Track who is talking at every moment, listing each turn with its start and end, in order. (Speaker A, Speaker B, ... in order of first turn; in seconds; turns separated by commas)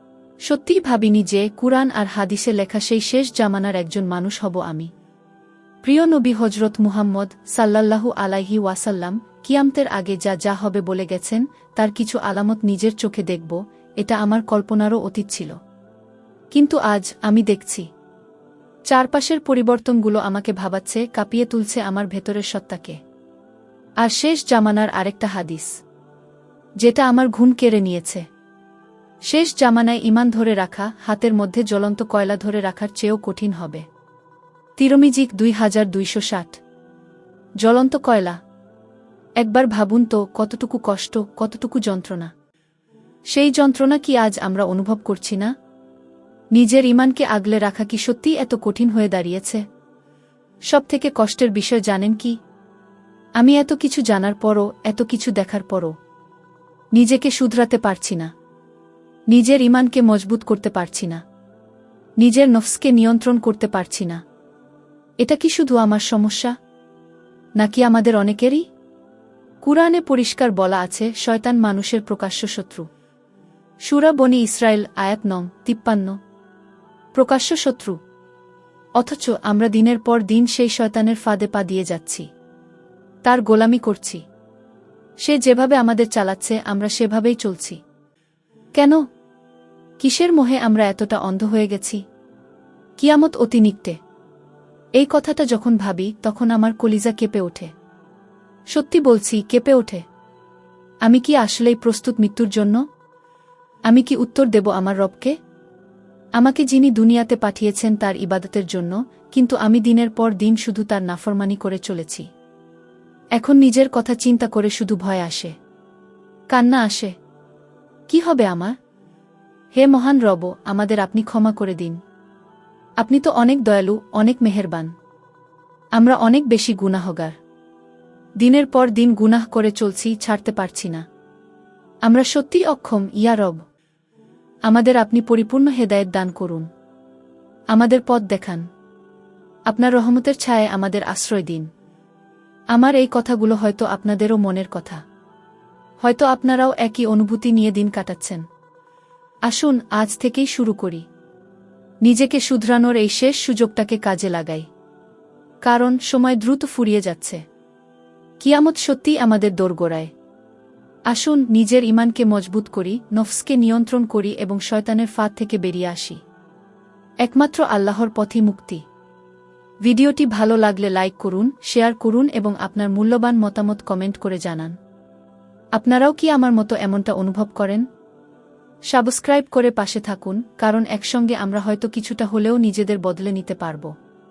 Speaker A: 0.5-4.9, Speaker A: 5.8-15.6, Speaker A: 16.5-17.9, Speaker A: 18.9-23.0, Speaker A: 24.0-25.7, Speaker A: 26.8-28.3, Speaker A: 29.3-33.9, Speaker A: 34.8-36.6, Speaker A: 37.6-38.4, Speaker A: 39.4-42.3, Speaker A: 43.3-45.5, Speaker A: 46.5-49.6, Speaker A: 50.7-52.4, Speaker A: 53.4-56.0, Speaker A: 57.0-58.3, Speaker A: 59.3-61.2, Speaker A: 62.2-64.2, Speaker A: 65.2-66.6, Speaker A: 67.6-68.7, Speaker A: 69.6-72.9, Speaker A: 73.9-76.2, Speaker A: 77.2-78.0, Speaker A: 79.0-82.3, Speaker A: 83.2-84.2, Speaker A: 85.2-87.8, Speaker A: 88.8-89.0, Speaker A: 90.0-92.0, Speaker A: 93.0-94.0, Speaker A: 95.0-97.7, Speaker A: 98.7-100.0, Speaker A: 101.0-102.8, Speaker A: 103.9-105.4, Speaker A: 106.4-112.3, Speaker A: 113.4-115.5, Speaker A: 116.5-117.1, Speaker A: 118.1-118.8, Speaker A: 119.7-122.0, Speaker A: 123.0-124.9, Speaker A: 126.0-127.4, Speaker A: 128.4-131.1, Speaker A: 132.0-133.6, Speaker A: 134.7-136.7, Speaker A: 137.7-138.7, Speaker A: 139.7-141.7, Speaker A: 142.7-145.0, Speaker A: 146.0-148.5, Speaker A: 149.5-151.1, Speaker A: 152.0-154.7, Speaker A: 155.6-157.4, Speaker A: 158.4-160.1, Speaker A: 161.1-166.2, Speaker A: 167.2-168.8, Speaker A: 169.8-174.8, Speaker A: 175.8-177.9, Speaker A: 178.9-183.9